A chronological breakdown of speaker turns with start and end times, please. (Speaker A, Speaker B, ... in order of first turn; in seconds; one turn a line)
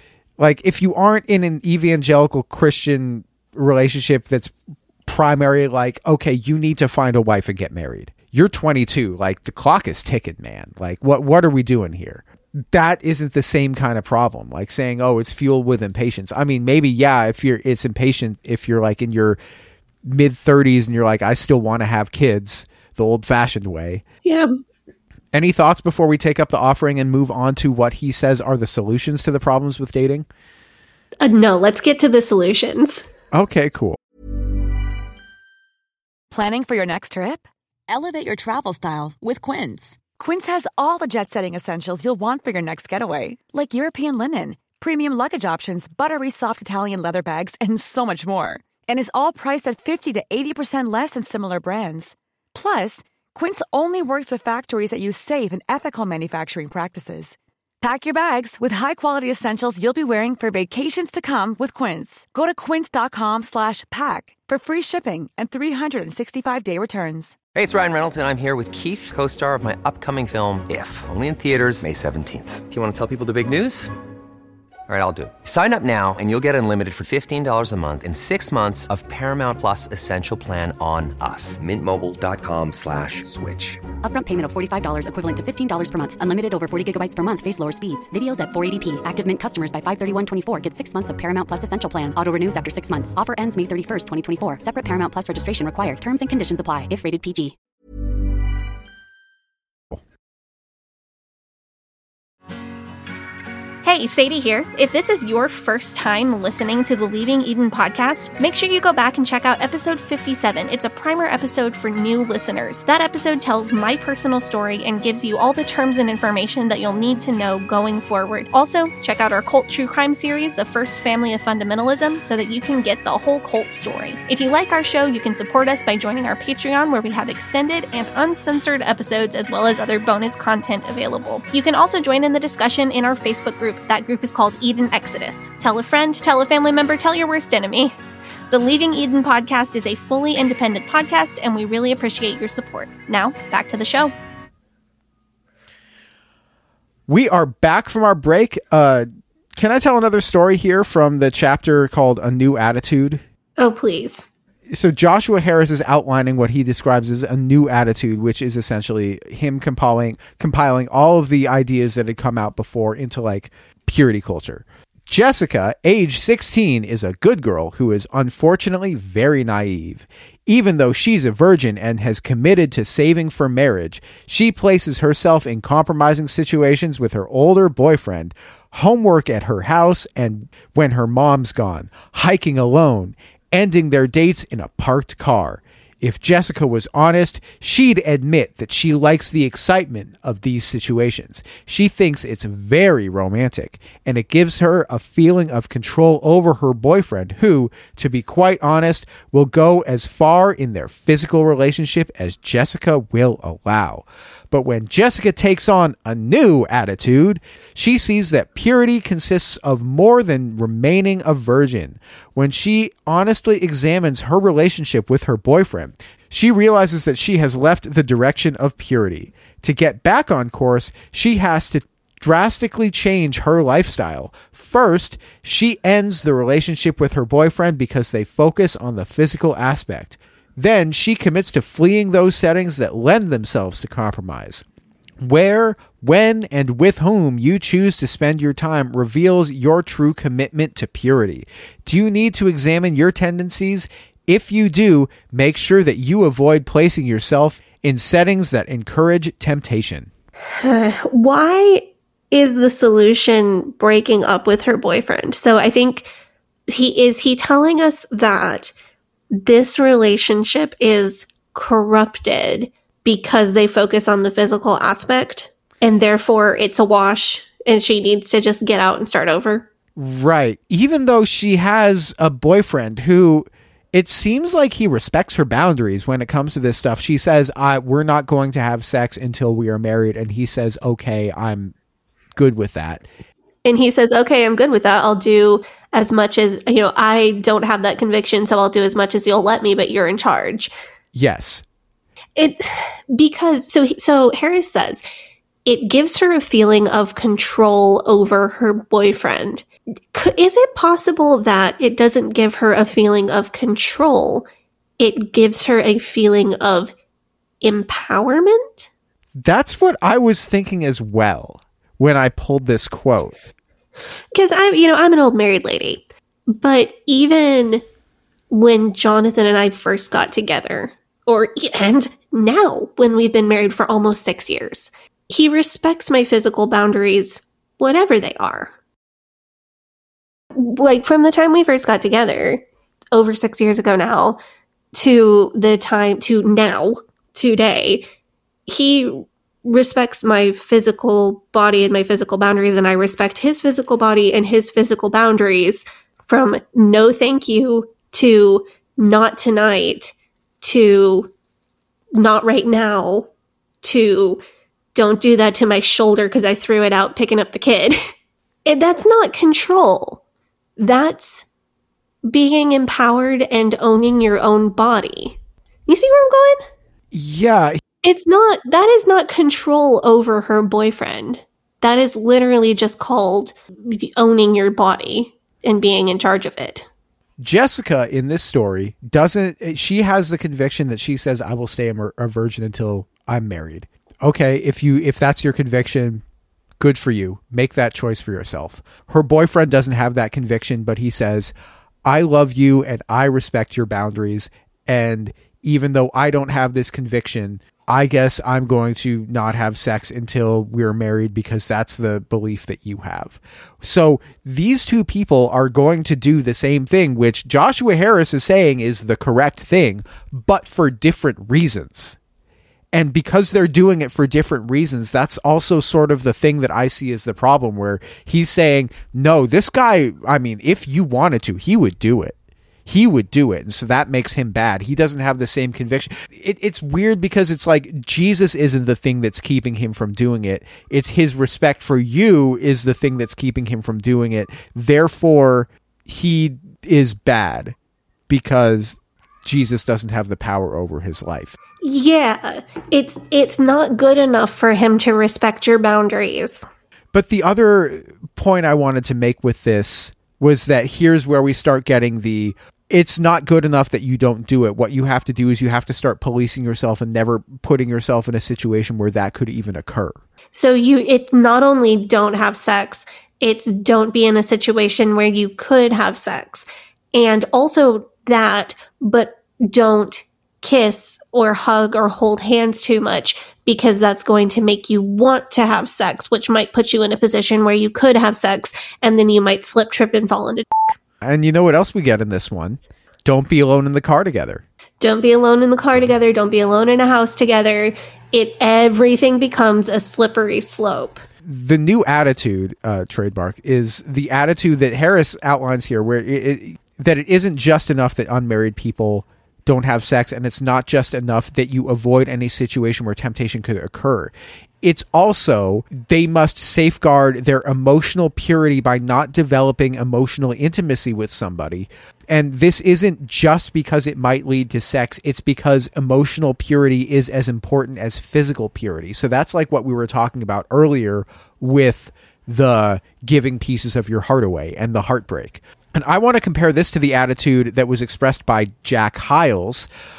Speaker A: 0.4-4.5
Speaker A: 5.0-19.4
Speaker A: 20.0-24.0
Speaker A: 25.3-30.3
Speaker B: 31.2-33.0
Speaker A: 33.3-34.0
Speaker C: 36.3-67.4
Speaker D: 67.5-73.9
Speaker D: 74.9-83.8
Speaker E: 84.0-97.5
Speaker B: 103.8-138.0
Speaker B: 138.5-144.1
Speaker A: 147.1-153.2
Speaker B: 153.6-154.3
Speaker A: 154.7-234.6
Speaker A: 235.2-250.1
Speaker B: 250.6-256.1
Speaker B: 256.7-258.7
Speaker B: 259.3-269.7
Speaker A: 269.9-281.7
Speaker A: 282.4-283.1
Speaker B: 283.6-290.7
Speaker A: 291.1-291.6
Speaker B: 292.4-295.0
Speaker B: 295.6-304.4
Speaker B: 305.0-306.9
Speaker B: 307.6-308.9
Speaker A: 309.4-313.3
Speaker B: 314.3-317.8
Speaker B: 318.5-328.7
Speaker B: 330.5-334.4
Speaker B: 334.9-338.0
Speaker B: 338.7-351.3
Speaker B: 352.1-353.3
Speaker B: 353.8-354.4
Speaker B: 354.9-358.0
Speaker B: 358.6-360.2
Speaker B: 360.8-361.5
Speaker B: 362.3-366.6
Speaker A: 367.1-367.8
Speaker B: 368.0-376.8
Speaker A: 377.4-386.2
Speaker A: 386.8-391.5
Speaker A: 392.0-412.2
Speaker A: 412.9-437.7
Speaker A: 438.3-441.6
Speaker B: 441.8-446.6
Speaker A: 447.1-460.2
Speaker B: 460.5-481.0
Speaker A: 481.2-484.6
Speaker B: 485.0-491.2
Speaker A: 491.4-529.9